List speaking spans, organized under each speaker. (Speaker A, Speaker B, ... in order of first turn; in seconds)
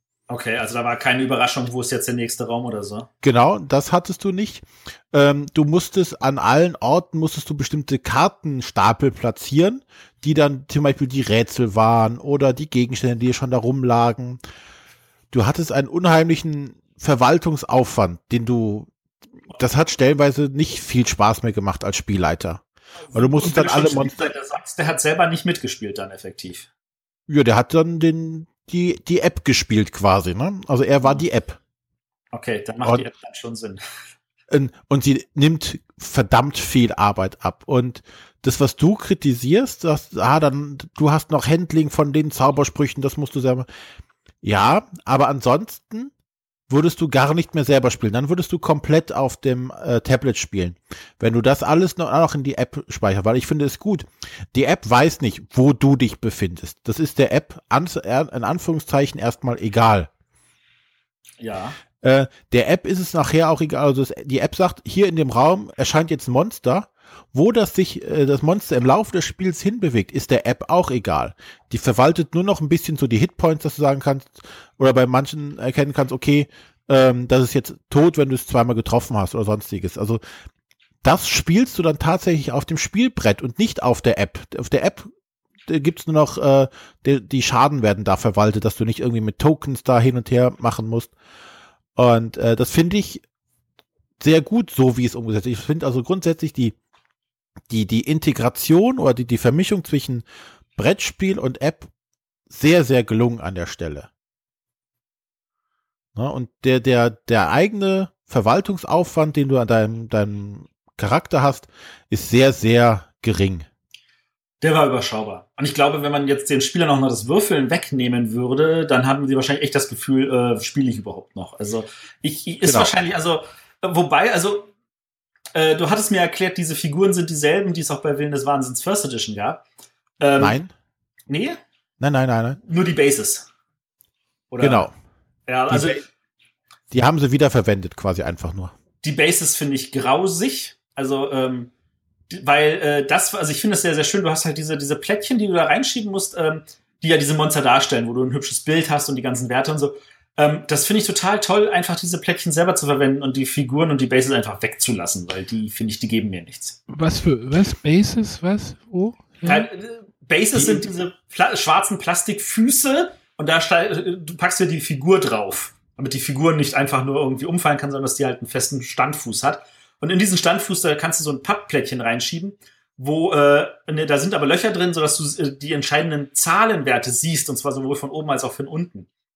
Speaker A: 0.3-3.1, 23.1-26.7, 32.3-33.8, 61.4-61.8, 114.6-124.7, 125.5-129.6, 130.2-130.6, 131.3-131.6, 132.7-133.5, 134.5-134.9, 135.5-136.0, 139.0-141.7, 142.3-156.8, 159.4-179.1
Speaker B: 3.2-14.4, 15.3-18.9, 19.5-22.6, 23.1-24.1, 27.3-31.6, 34.5-43.7, 44.4-46.1, 46.7-60.1, 62.0-80.2, 81.0-85.1, 85.7-91.1, 92.0-93.2, 94.2-96.8, 97.7-100.2, 100.8-101.9, 102.5-104.1, 106.1-113.7, 122.6-122.9, 130.4-130.7, 132.0-132.6, 134.6-134.9, 135.7-136.0, 136.9-138.7
Speaker C: 156.9-159.6